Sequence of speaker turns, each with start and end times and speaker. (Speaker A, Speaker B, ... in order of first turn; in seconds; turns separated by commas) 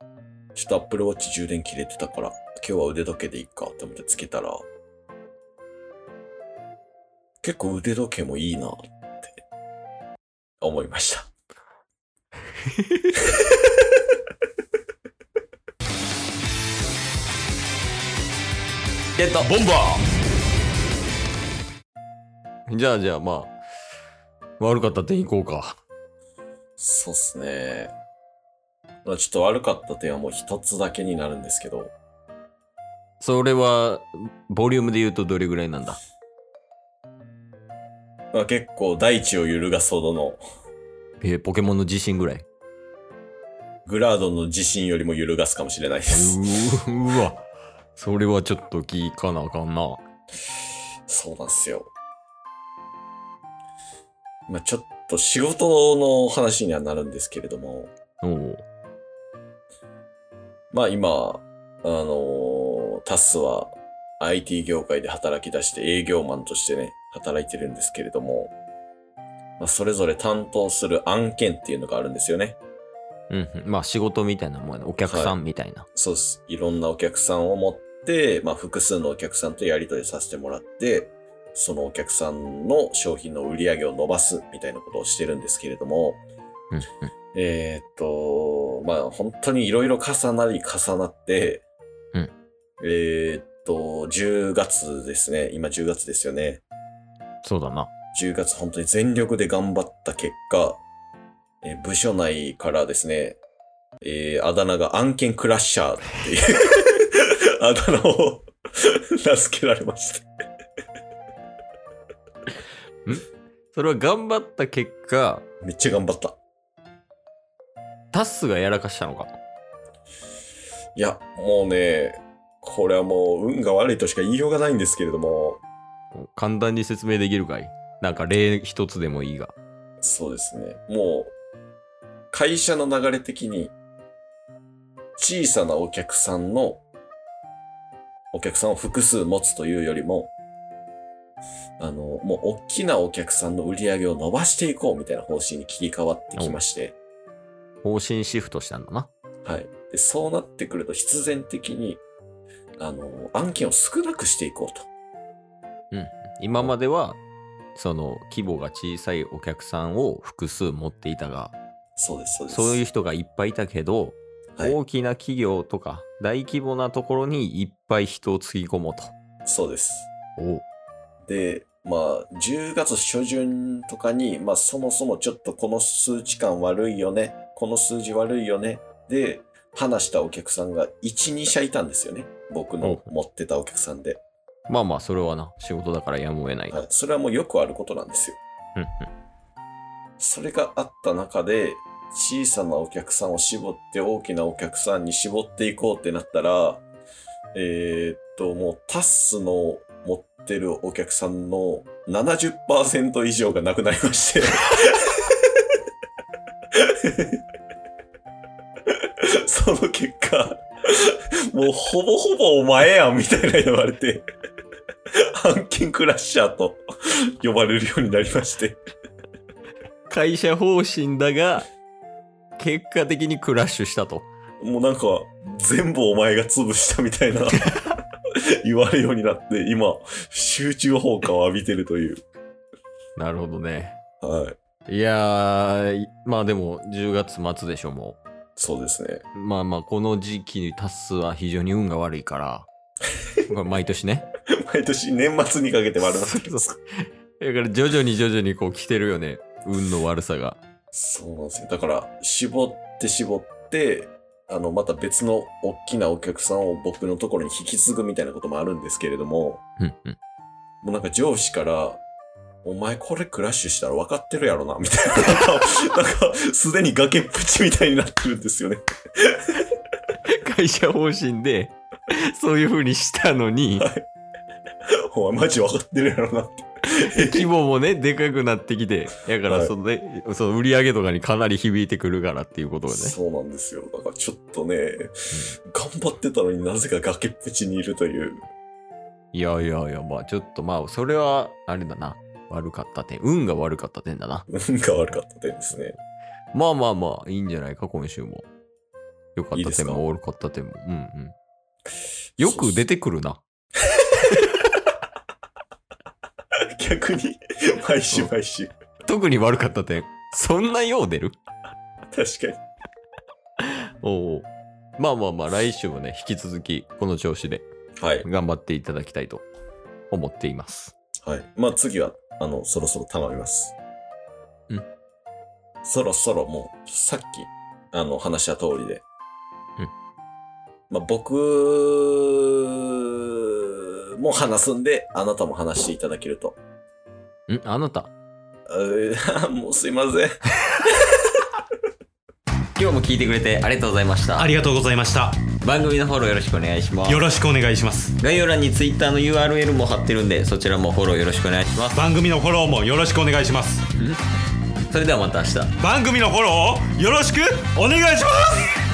Speaker A: 0.6-4.6, Speaker A: 7.4-9.4, Speaker A: 10.6-11.3, Speaker B: 12.8-13.2, Speaker B: 19.2-19.5, Speaker C: 19.4-20.0, Speaker B: 22.7-23.6, Speaker B: 24.6-25.8, Speaker A: 26.8-27.9, Speaker A: 29.1-31.9, Speaker B: 33.2-36.0, Speaker A: 38.3-40.4, Speaker B: 41.2-42.5, Speaker A: 43.9-46.4, Speaker B: 46.1-50.0, Speaker A: 51.1-51.9, Speaker A: 54.5-57.9, Speaker B: 58.2-58.6, Speaker A: 60.7-68.5, Speaker A: 69.6-72.6, Speaker B: 73.3-75.9, Speaker A: 75.1-75.3, Speaker A: 76.0-86.2, Speaker B: 86.7-87.1, Speaker A: 87.3-91.6, Speaker A: 92.8-96.6, Speaker B: 97.4-97.9, Speaker A: 98.1-100.8, Speaker A: 101.6-103.4, Speaker A: 104.0-110.3, Speaker B: 113.1-115.5, Speaker A: 115.6-116.4, Speaker B: 118.1-119.3, Speaker A: 121.0-125.6, Speaker B: 126.1-129.5, Speaker A: 130.0-131.3, Speaker A: 132.3-133.7, Speaker A: 135.2-136.8, Speaker A: 138.3-140.3, Speaker A: 141.8-147.0, Speaker B: 147.8-149.1, Speaker A: 149.4-152.0, Speaker A: 152.8-154.9, Speaker B: 155.9-157.2, Speaker B: 157.8-161.6, Speaker A: 162.0-162.8, Speaker B: 162.5-169.1, Speaker A: 169.5-170.1, Speaker B: 170.4-170.6, Speaker A: 171.2-184.2, Speaker B: 182.8-183.1, Speaker B: 184.7-186.8, Speaker A: 186.7-188.4, Speaker B: 188.8-189.1, Speaker A: 190.2-196.8, Speaker A: 197.5-205.4, Speaker A: 206.8-207.4, Speaker A: 209.0-214.3, Speaker A: 215.4-216.8, Speaker A: 217.4-218.8, Speaker B: 220.1-221.7, Speaker B: 222.6-224.3, Speaker A: 224.6-227.8, Speaker A: 228.6-232.2, Speaker B: 233.2-234.0, Speaker A: 234.2-234.6, Speaker B: 234.9-238.2, Speaker A: 238.6-239.2, Speaker B: 239.3-242.7, Speaker B: 243.5-244.3, Speaker A: 244.6-246.7, Speaker B: 246.0-250.6, Speaker A: 250.9-259.6, Speaker B: 259.8-260.2, Speaker A: 260.8-262.0, Speaker A: 262.6-269.6, Speaker B: 270.3-273.9, Speaker A: 273.8-274.1, Speaker A: 275.1-277.5, Speaker B: 277.0-283.2, Speaker A: 279.4-279.7, Speaker A: 282.9-285.1, Speaker A: 285.7-288.4, Speaker B: 289.3-294.4, Speaker A: 294.5-296.0, Speaker B: 296.5-298.4, Speaker B: 299.4-301.3, Speaker A: 299.6-300.0, Speaker A: 302.4-302.8, Speaker B: 302.4-303.4, Speaker A: 306.8-308.7, Speaker B: 309.1-311.4, Speaker A: 312.1-312.6, Speaker B: 313.6-317.7, Speaker A: 318.0-318.3, Speaker B: 318.2-319.4, Speaker B: 320.1-320.9, Speaker A: 321.2-323.8, Speaker A: 325.8-329.0, Speaker A: 330.9-336.6, Speaker B: 337.5-338.1, Speaker A: 338.7-340.4, Speaker B: 342.8-344.6, Speaker C: 344.4-345.4, Speaker B: 345.6-347.3, Speaker C: 347.1-348.1, Speaker B: 348.2-352.0, Speaker C: 351.9-353.9, Speaker B: 354.9-355.8, Speaker C: 355.8-358.8